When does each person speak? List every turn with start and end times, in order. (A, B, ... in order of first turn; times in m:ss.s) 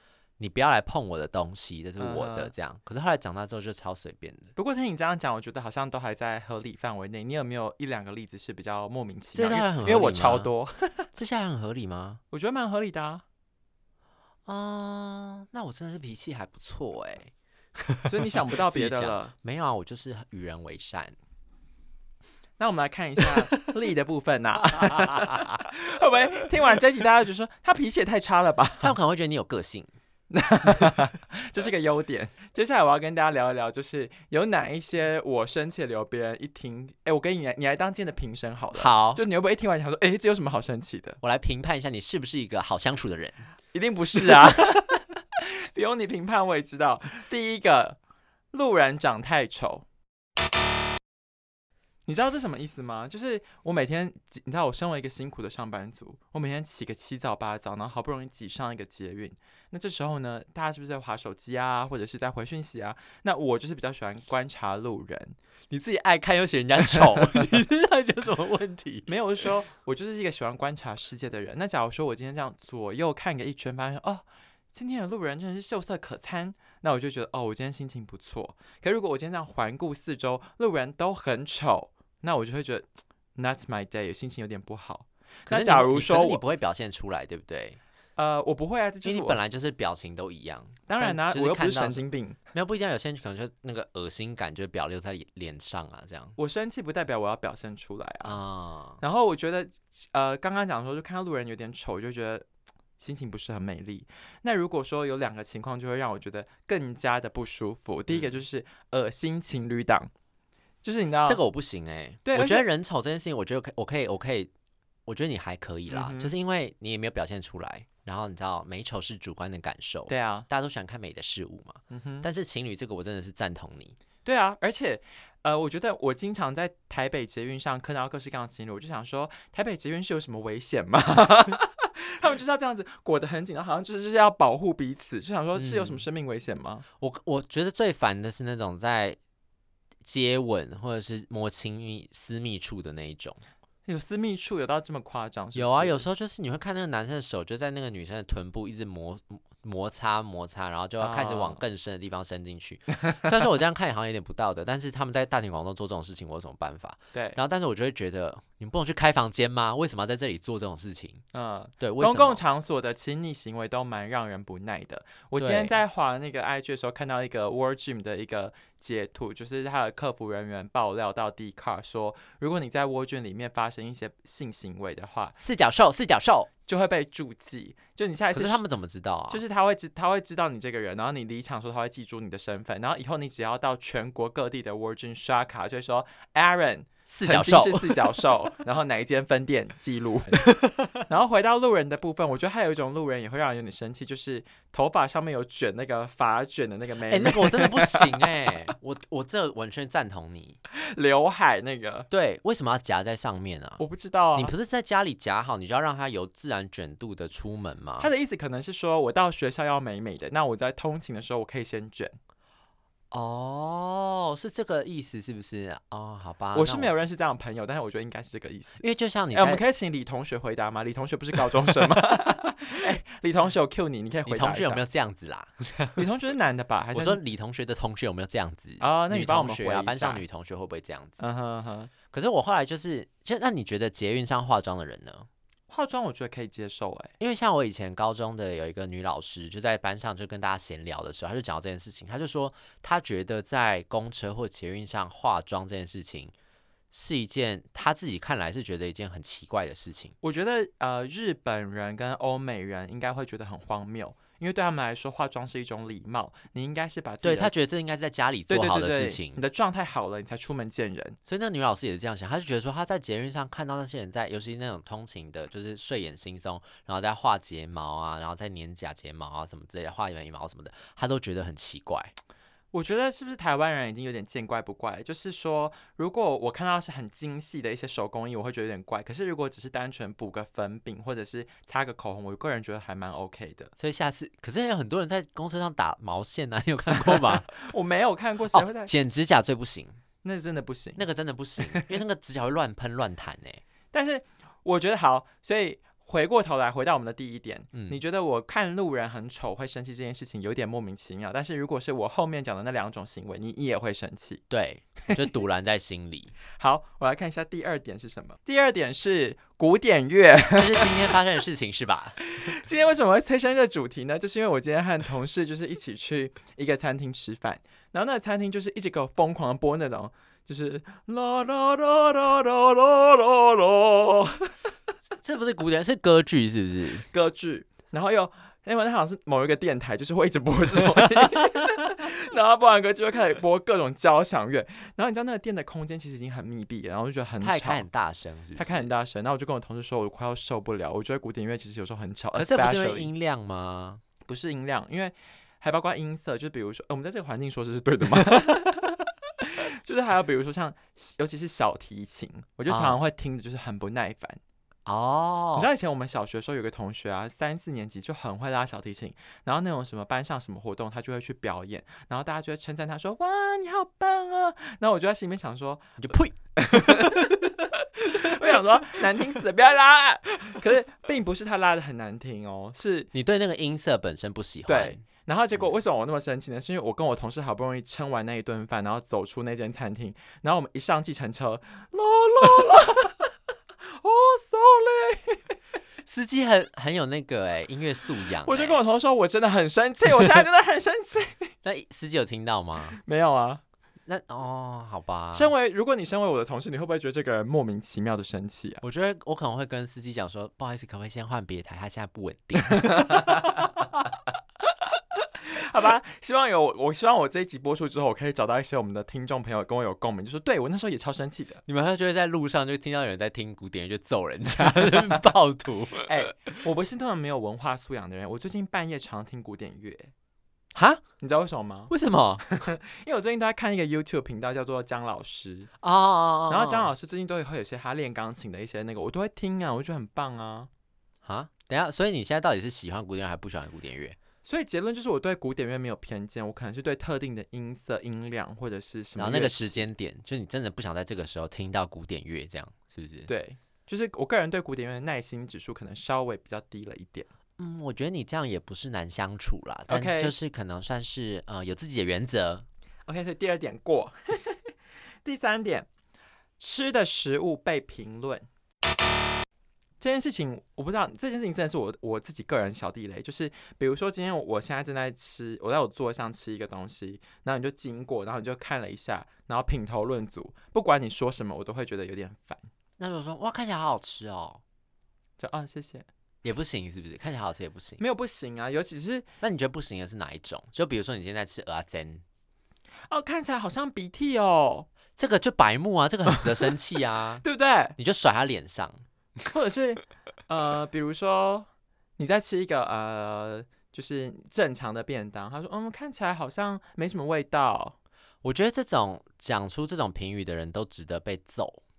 0:00.4-0:04.5 A
0:02.0-0:02.5 B
0:04.6-0:11.1 B
0:09.3-0:10.5 A
0:11.1-0:12.2 A
0:12.3-0:13.2 B
0:14.5-0:17.3 A
0:17.8-0:21.2 A
0:18.0-0:19.3 B
0:22.6-0:28.9 B
0:24.9-0:25.6 A
0:28.8-0:29.9 A
0:30.3-0:41.2 B
0:38.7-0:39.2 A
0:41.2-0:43.4 A
0:43.7-0:48.0 B
0:48.5-0:49.8 B
0:52.1-1:05.4 B
1:05.7-1:09.1 A
1:06.8-1:07.6 B
1:09.1-1:26.4 B
1:25.5-1:27.8 A
1:28.2-1:29.4 B
1:29.0-1:36.4 A
1:30.9-1:32.4 B
1:36.4-1:38.4 B
1:38.2-1:39.0 A
1:39.0-1:42.4 B
1:43.0-1:50.1 B
1:50.8-1:51.4 B
1:51.2-1:54.5 A
1:52.2-1:52.6 B
1:55.0-2:04.0 A
1:55.9-1:56.3 B
2:00.1-2:00.5 B
2:01.9-2:02.3 B
2:04.2-2:16.8 B
2:15.6-2:16.0 A
2:17.0-2:19.2 A
2:20.0-2:23.4 A
2:23.8-2:26.0 B
2:25.5-2:41.2 A
2:31.0-2:31.6 B
2:41.3-2:55.4 B
2:41.8-2:42.4 A
2:45.4-2:45.8 A
2:55.4-2:56.5 A
2:56.7-2:58.6 B
2:58.3-2:59.4 A
2:59.3-3:18.3 B
3:07.1-3:08.2 A
3:10.5-3:10.9 A
3:17.1-3:20.6 A
3:20.7-3:22.1 B
3:22.1-3:23.8 A
3:23.8-3:24.5 B
3:24.4-3:28.1 A
3:28.0-3:32.2 B
3:33.1-3:36.9 A
3:36.5-3:38.8 B
3:38.8-3:39.6 A
3:39.3-3:44.8 B
3:44.3-3:46.0 A
3:46.0-3:47.2 B
3:46.9-3:51.2 A
3:48.8-3:50.2 B
3:51.2-3:51.9 B
3:52.1-3:55.3 A
3:55.7-3:57.1 B
3:57.2-4:06.3 A
4:06.9-4:10.1 A
4:10.2-4:17.5 B
4:17.2-4:19.4 A
4:18.5-4:21.2 B
4:21.2-4:32.1 A
4:32.7-4:43.7 B
4:43.8-4:47.6 A
4:47.0-4:48.9 B
4:48.5-4:50.0 A
4:50.2-4:51.0 B
4:51.0-4:53.6 A
4:51.6-4:52.0 B
4:53.9-5:04.4 B
4:57.7-4:58.0 A
5:04.5-5:06.3 A
5:06.6-5:10.9 B
5:10.5-5:12.2 A
5:12.3-5:24.6 B
5:25.2-5:27.1 A
5:27.1-5:37.8 B
5:37.4-5:38.9 A
5:38.6-5:43.1 B
5:42.3-5:44.0 A
5:44.2-5:54.4 B
5:52.7-5:53.0 A
5:54.8-5:55.7 A
5:55.6-6:13.1 B
6:06.0-6:07.3 A
6:13.1-6:15.0 A
6:14.7-6:23.3 B
6:23.8-6:25.6 B
6:26.0-6:28.8 A
6:28.4-6:31.5 B
6:31.6-6:33.0 A
6:33.0-6:33.6 B
6:34.1-6:35.5 A
6:35.3-6:38.8 B
6:38.8-6:43.8 A
6:42.8-6:43.7 B
6:45.2-6:51.6 B
6:51.6-6:56.1 A
6:56.0-7:00.1 B
7:00.7-7:01.0 A
7:01.2-7:01.9 B
7:01.9-7:02.5 A
7:02.5-7:05.7 B
7:05.8-7:06.9 A
7:06.5-7:10.7 B
7:11.2-7:14.2 A
7:14.4-7:19.8 B
7:19.2-7:23.3 A
7:23.3-7:27.3 B
7:27.6-7:32.6 A
7:29.9-7:30.3 B
7:33.0-7:34.6 B
7:35.2-7:35.9 B
7:36.6-7:38.5 B
7:40.0-7:52.7 B
7:53.0-7:54.6 A
7:55.4-7:56.1 B
7:56.4-7:58.0 A
7:58.0-7:59.3 B
7:59.4-8:02.2 A
8:03.1-8:04.9 B
8:05.2-8:07.4 A
8:07.4-8:08.0 B
8:08.0-8:09.0 A
8:09.5-8:17.9 B
8:18.4-8:21.8 A